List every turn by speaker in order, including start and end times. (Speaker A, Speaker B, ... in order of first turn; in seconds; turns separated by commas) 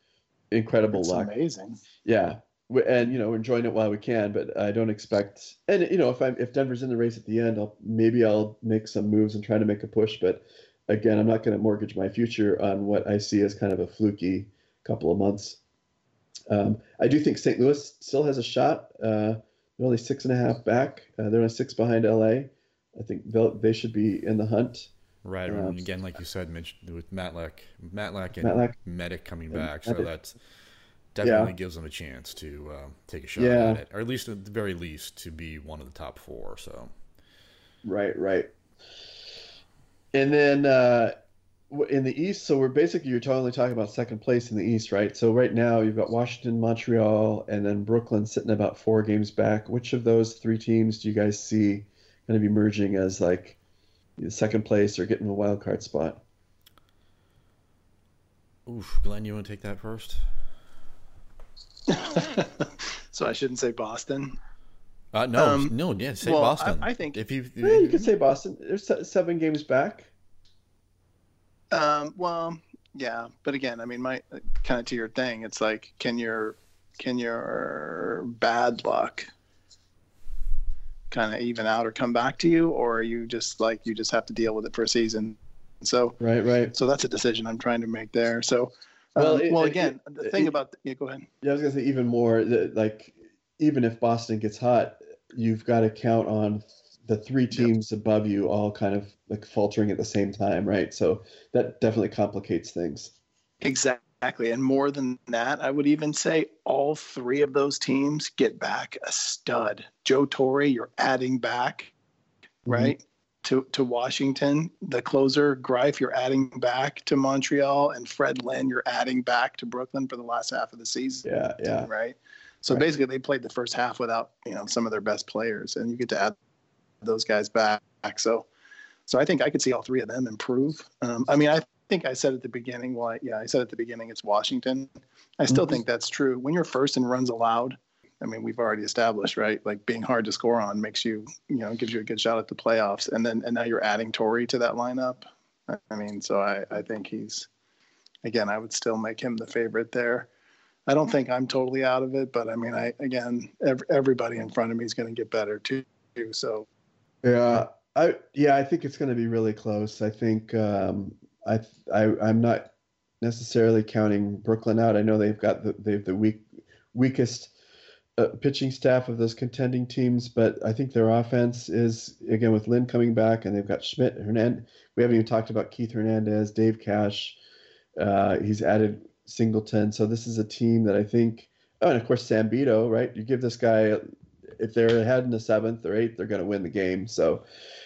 Speaker A: 0.5-1.3, Speaker B: 0.9-1.8, Speaker A: 2.0-15.6, Speaker A: 16.5-24.9, Speaker C: 25.2-30.4, Speaker A: 25.5-25.8, Speaker A: 28.4-28.8, Speaker A: 29.5-30.1, Speaker C: 31.1-36.9, Speaker A: 31.2-31.5, Speaker A: 33.4-33.8, Speaker A: 37.8-38.5, Speaker A: 40.1-41.1, Speaker A: 41.7-53.6, Speaker A: 54.2-56.2, Speaker C: 58.6-60.2, Speaker B: 61.9-64.3, Speaker C: 65.1-68.1, Speaker B: 65.3-67.2, Speaker A: 67.6-70.1, Speaker B: 71.7-79.3, Speaker B: 81.1-86.2, Speaker A: 86.2-86.7, Speaker B: 86.7-91.3, Speaker A: 89.2-90.5, Speaker A: 91.4-103.1, Speaker B: 103.6-111.9, Speaker A: 112.7-112.9, Speaker B: 112.7-121.2, Speaker A: 121.2-121.9, Speaker B: 121.8-126.3, Speaker B: 127.0-128.4, Speaker B: 129.1-134.9, Speaker B: 135.4-147.5, Speaker A: 135.5-135.8, Speaker B: 148.2-150.3, Speaker B: 150.9-156.7, Speaker A: 157.2-162.7, Speaker A: 163.2-167.5, Speaker A: 168.2-177.4, Speaker A: 178.0-184.0, Speaker A: 184.6-187.4